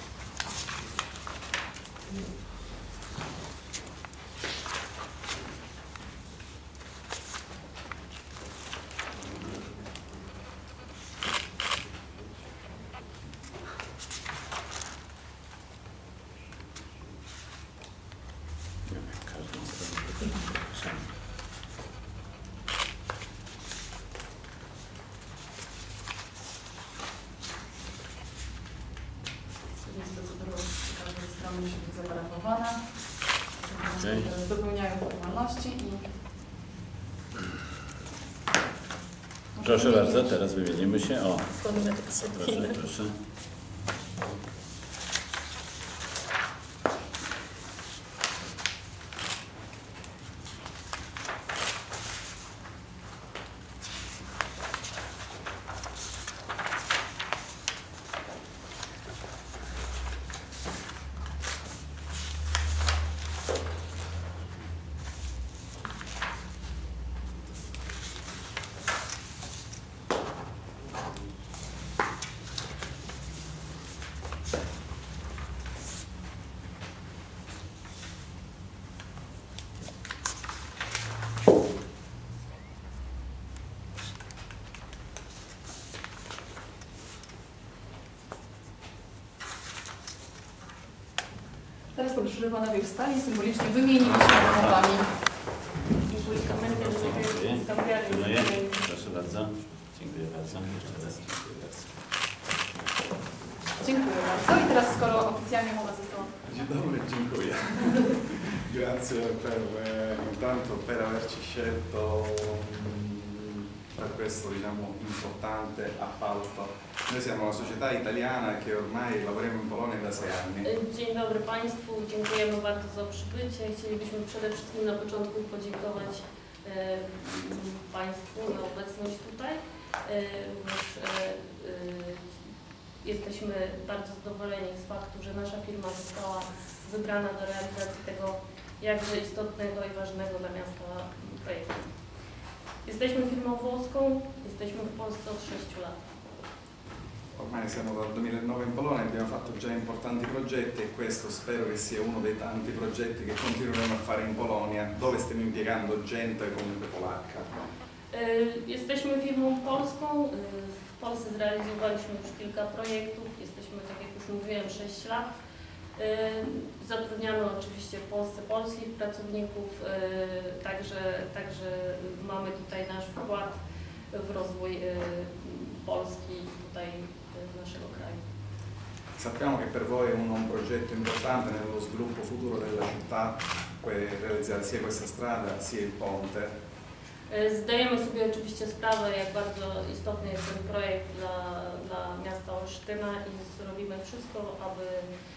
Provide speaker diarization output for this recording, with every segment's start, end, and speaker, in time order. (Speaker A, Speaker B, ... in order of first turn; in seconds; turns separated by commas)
Speaker A: 18.9-21.1, Speaker B: 29.8-32.8, Speaker B: 33.6-36.1, Speaker A: 34.0-34.3, Speaker B: 39.6-40.2, Speaker A: 39.6-43.1, Speaker C: 41.6-42.8, Speaker B: 91.9-95.1, Speaker A: 94.2-94.9, Speaker C: 96.1-98.9, Speaker A: 96.2-101.9, Speaker B: 103.8-106.4, Speaker D: 106.4-120.7, Speaker C: 120.6-132.3, Speaker C: 133.0-141.8, Speaker C: 142.8-146.0, Speaker D: 147.3-157.5, Speaker C: 158.1-165.3, Speaker C: 165.9-173.6, Speaker C: 174.1-178.2, Speaker D: 179.2-186.5, Speaker C: 187.3-195.1